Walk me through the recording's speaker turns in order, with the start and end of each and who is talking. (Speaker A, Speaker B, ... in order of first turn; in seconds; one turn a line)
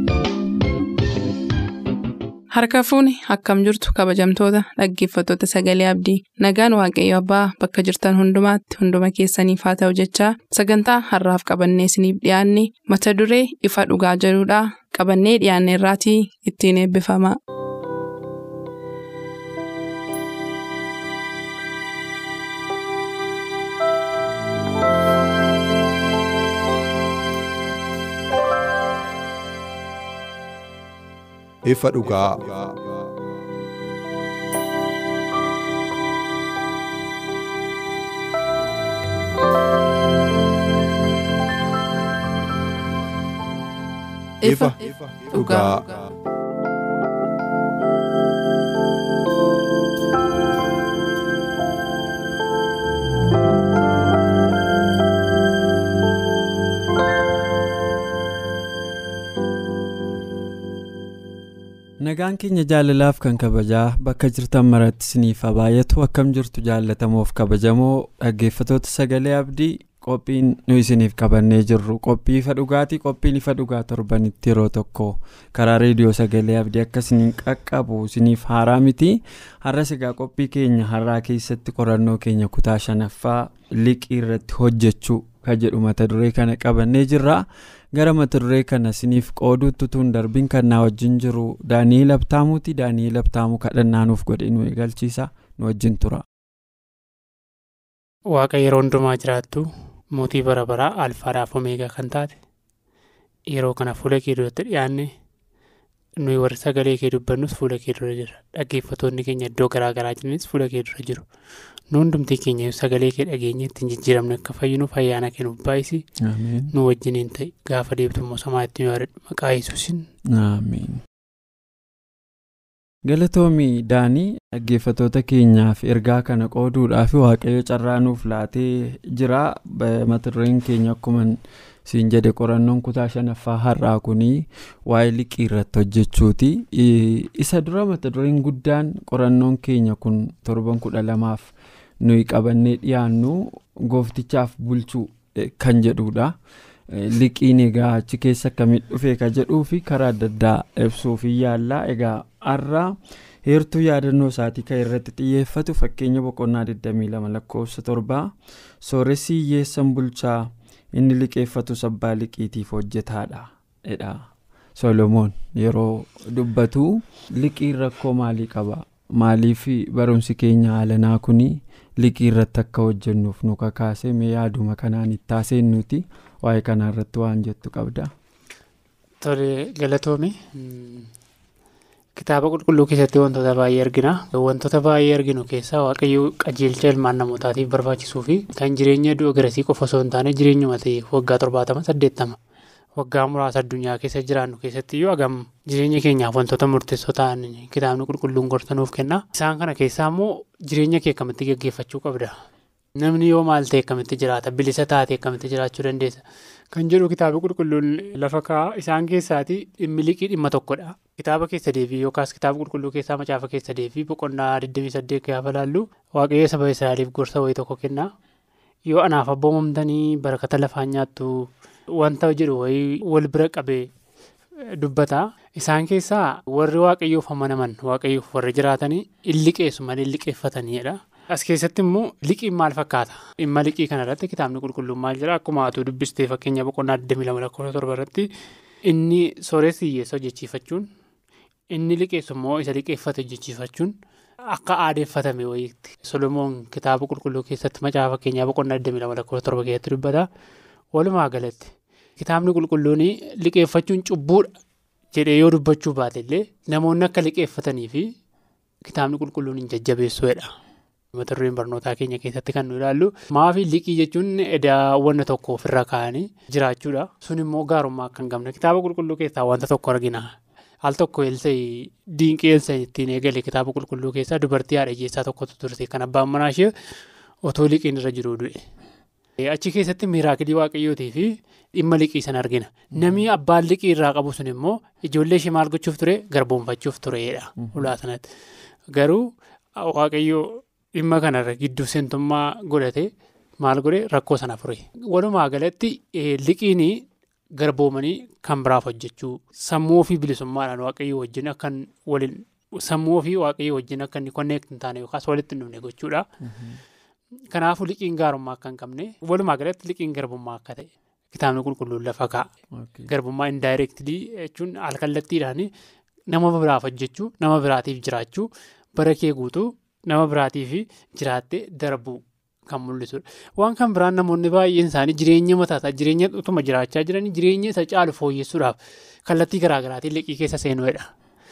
Speaker A: 2.5-17.4
Speaker B: 31.6-32.8
Speaker B: 44.4-46.1
Speaker A: 44.4-44.8
Speaker A: 45.3-45.9
Speaker C: 62.0-96.2
Speaker D: 98.3-102.4
Speaker D: 103.5-105.1
Speaker D: 106.2-111.2
Speaker D: 111.9-116.0
Speaker C: 116.2-116.7
Speaker D: 116.7-120.1
Speaker C: 120.3-121.0
Speaker C: 123.0-146.3
Speaker C: 146.9-152.9
Speaker C: 153.4-178.1
Speaker D: 179.2-181.1
Speaker D: 182.2-192.4
Speaker D: 193.0-202.3
Speaker D: 203.0-218.1
Speaker D: 218.9-223.9
Speaker D: 224.7-238.3
Speaker D: 238.9-240.9
Speaker D: 241.7-243.9
Speaker D: 244.5-250.3
Speaker D: 250.9-254.5
Speaker D: 255.1-258.1
Speaker D: 258.9-260.5
Speaker D: 261.1-276.7
Speaker D: 277.4-278.6
Speaker D: 279.4-288.2
Speaker C: 282.9-283.2
Speaker C: 287.6-287.9
Speaker D: 288.9-289.2
Speaker D: 289.8-297.1
Speaker D: 297.6-306.3
Speaker C: 306.4-306.8
Speaker D: 307.5-312.5
Speaker C: 312.8-313.1
Speaker D: 313.1-315.7
Speaker D: 316.3-331.1